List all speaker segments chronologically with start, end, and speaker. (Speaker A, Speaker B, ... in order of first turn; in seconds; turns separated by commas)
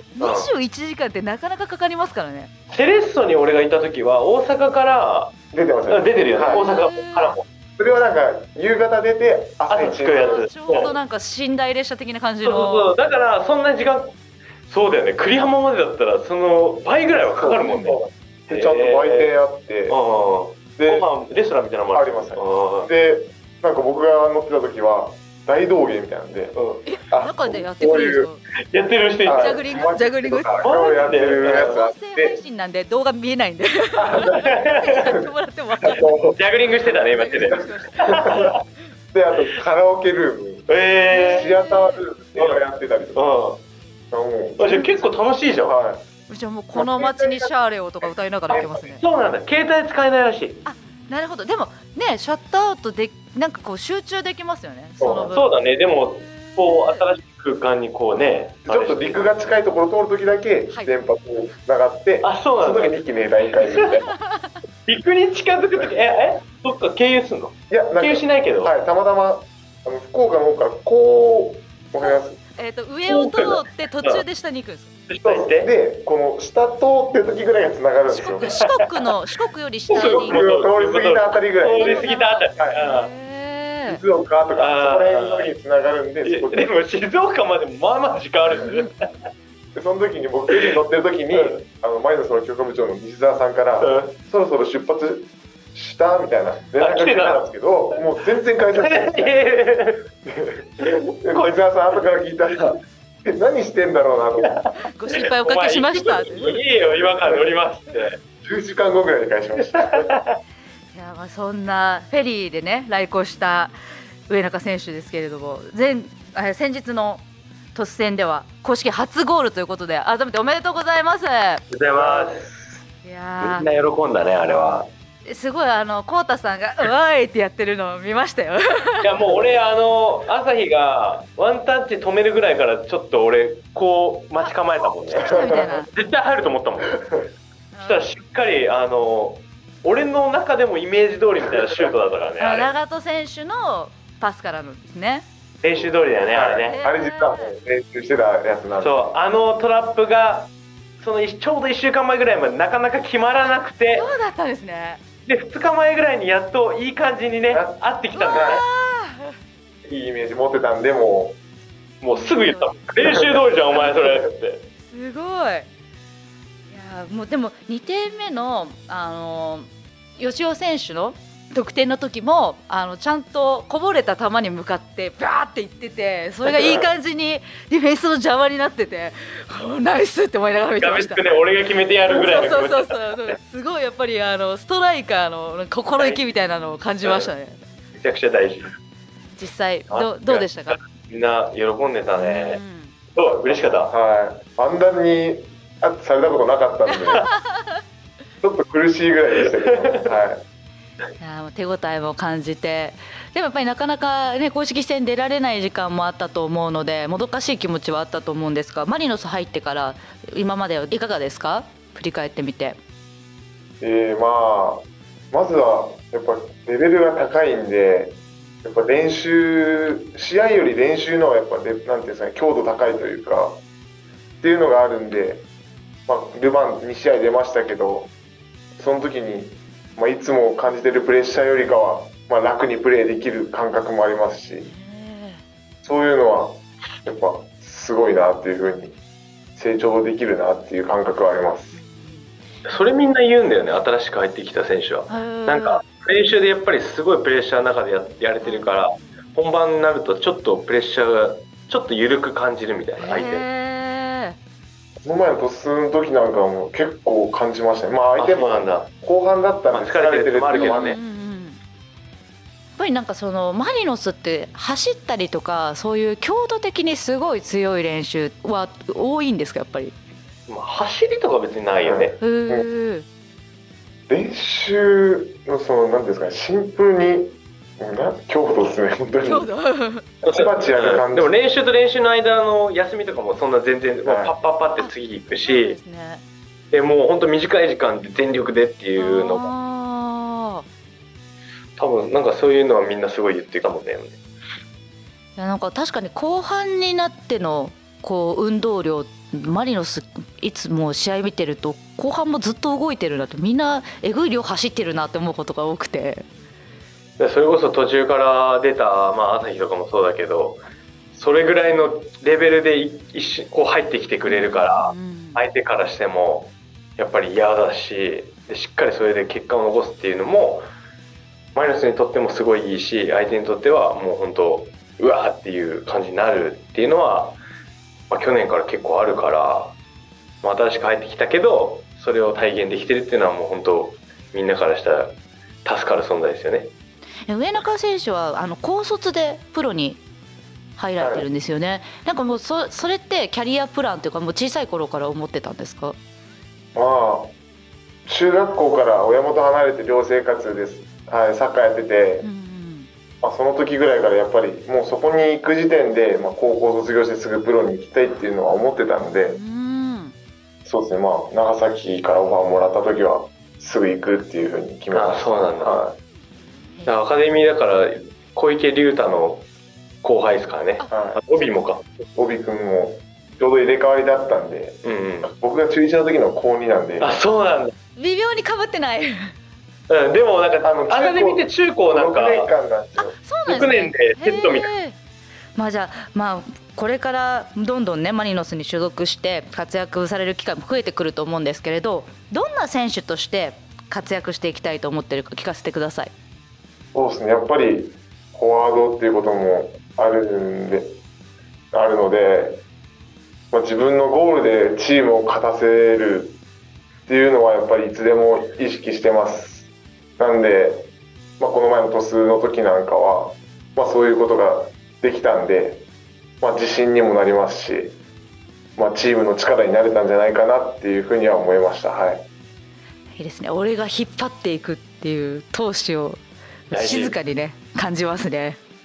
Speaker A: 0.2-2.5, Speaker B: 0.2-0.5, Speaker B: 2.7-5.3, Speaker C: 5.5-6.6, Speaker B: 5.9-7.4, Speaker A: 6.5-7.4, Speaker C: 7.8-10.9, Speaker B: 9.7-10.9, Speaker A: 10.2-12.9, Speaker B: 12.4-14.2, Speaker B: 14.7-19.3, Speaker C: 17.3-20.0, Speaker B: 19.9-22.9, Speaker C: 20.8-21.1, Speaker C: 21.9-26.6, Speaker B: 26.5-26.8, Speaker A: 26.9-28.4, Speaker C: 27.1-28.3, Speaker B: 28.7-29.6, Speaker C: 29.2-32.4, Speaker A: 29.3-36.1, Speaker B: 30.6-31.8, Speaker C: 34.0-35.3, Speaker B: 34.3-35.1, Speaker C: 35.8-36.4, Speaker B: 36.3-38.6, Speaker A: 36.9-38.5, Speaker C: 38.0-38.5, Speaker C: 39.1-43.3, Speaker B: 40.7-41.5, Speaker A: 41.1-42.0, Speaker B: 42.4-42.6, Speaker B: 43.1-43.6, Speaker C: 44.1-46.0, Speaker B: 44.6-45.8, Speaker A: 46.3-49.0, Speaker C: 46.8-47.5, Speaker B: 48.5-50.6, Speaker A: 50.6-55.5, Speaker C: 55.0-55.3, Speaker B: 55.3-59.4, Speaker A: 56.4-57.1, Speaker C: 58.7-64.1, Speaker B: 62.2-63.0, Speaker B: 63.6-64.0, Speaker A: 64.2-64.5, Speaker B: 64.9-68.7, Speaker C: 67.7-72.4, Speaker A: 72.0-74.9, Speaker B: 73.1-74.2, Speaker B: 75.1-75.7, Speaker C: 75.2-78.5, Speaker A: 78.2-80.5, Speaker B: 78.4-79.1, Speaker B: 79.9-83.1, Speaker C: 79.9-82.8, Speaker A: 81.8-84.0, Speaker C: 83.9-86.7, Speaker B: 84.6-85.5, Speaker B: 86.2-88.9, Speaker C: 89.8-99.4, Speaker B: 90.5-90.8, Speaker B: 91.3-91.6, Speaker B: 93.8-94.2, Speaker B: 96.8-97.4, Speaker B: 98.7-100.0, Speaker C: 100.2-104.6, Speaker B: 100.8-101.5, Speaker B: 104.4-108.2, Speaker A: 104.8-106.6, Speaker C: 107.0-107.5, Speaker C: 108.4-110.1, Speaker B: 109.7-110.4, Speaker A: 110.9-113.7, Speaker A: 114.3-117.2, Speaker A: 117.7-121.7, Speaker B: 121.7-122.5, Speaker C: 122.0-122.5, Speaker A: 123.0-123.7, Speaker B: 123.4-124.9, Speaker A: 125.2-129.1, Speaker B: 129.0-137.0, Speaker A: 135.1-135.9, Speaker C: 135.1-135.8, Speaker A: 137.7-138.1, Speaker B: 137.8-142.7, Speaker A: 142.4-145.3, Speaker B: 145.6-146.8, Speaker C: 146.3-149.1, Speaker A: 146.7-147.6, Speaker B: 148.8-154.1, Speaker A: 153.9-155.0, Speaker B: 155.3-158.6, Speaker C: 157.5-157.8, Speaker A: 158.1-159.4, Speaker C: 158.3-158.6, Speaker C: 159.8-161.4, Speaker B: 162.0-164.6, Speaker A: 162.1-162.8, Speaker A: 164.8-165.7, Speaker A: 166.7-181.2, Speaker B: 180.8-183.4, Speaker A: 182.1-187.6, Speaker B: 188.0-188.7, Speaker A: 189.4-190.8, Speaker B: 189.9-192.6, Speaker A: 192.2-192.9, Speaker B: 193.1-193.9, Speaker C: 193.2-197.3, Speaker C: 198.4-200.4, Speaker B: 199.7-200.2, Speaker A: 201.2-212.8, Speaker C: 213.8-223.6, Speaker C: 224.4-225.4, Speaker C: 226.1-228.1, Speaker C: 228.8-234.7, Speaker A: 234.6-235.4, Speaker C: 235.8-239.0, Speaker C: 239.6-241.8, Speaker A: 241.8-242.3, Speaker B: 242.7-253.5, Speaker A: 245.1-245.8, Speaker A: 248.4-248.7, Speaker A: 253.0-254.4, Speaker C: 255.0-261.0, Speaker B: 258.2-258.9, Speaker B: 259.7-261.0, Speaker A: 260.5-261.6, Speaker A: 262.8-269.9, Speaker B: 270.5-272.2, Speaker C: 271.8-272.7, Speaker A: 272.2-273.1, Speaker C: 274.1-279.5, Speaker A: 279.2-280.1, Speaker B: 280.2-285.8, Speaker C: 280.2-281.3, Speaker C: 284.0-284.4, Speaker A: 284.8-286.2, Speaker B: 286.7-289.5, Speaker A: 289.0-290.7, Speaker B: 291.8-294.2, Speaker A: 295.4-306.2, Speaker B: 307.2-310.6, Speaker B: 311.1-320.7, Speaker A: 314.3-315.4, Speaker B: 321.6-327.4, Speaker B: 328.1-329.8, Speaker B: 330.4-336.7, Speaker A: 337.3-340.0, Speaker A: 340.8-346.0, Speaker C: 341.0-341.3, Speaker C: 346.8-347.3, Speaker C: 348.1-352.3, Speaker A: 352.2-352.9, Speaker C: 353.2-359.4, Speaker A: 359.2-360.1, Speaker C: 360.6-366.0, Speaker B: 364.9-365.8, Speaker B: 366.9-369.4, Speaker B: 370.0-371.9, Speaker C: 370.9-371.2, Speaker C: 372.1-377.2, Speaker B: 374.8-375.3, Speaker B: 377.0-377.7, Speaker A: 378.0-379.3, Speaker B: 379.9-382.5, Speaker C: 380.6-383.2, Speaker A: 383.0-384.9, Speaker B: 383.5-384.7, Speaker A: 385.6-396.1, Speaker C: 396.9-400.9, Speaker C: 401.7-402.6, Speaker C: 403.5-406.4, Speaker C: 407.1-410.9, Speaker C: 411.4-415.8, Speaker C: 416.4-418.0, Speaker C: 418.8-422.2, Speaker A: 423.1-428.6, Speaker B: 426.7-427.2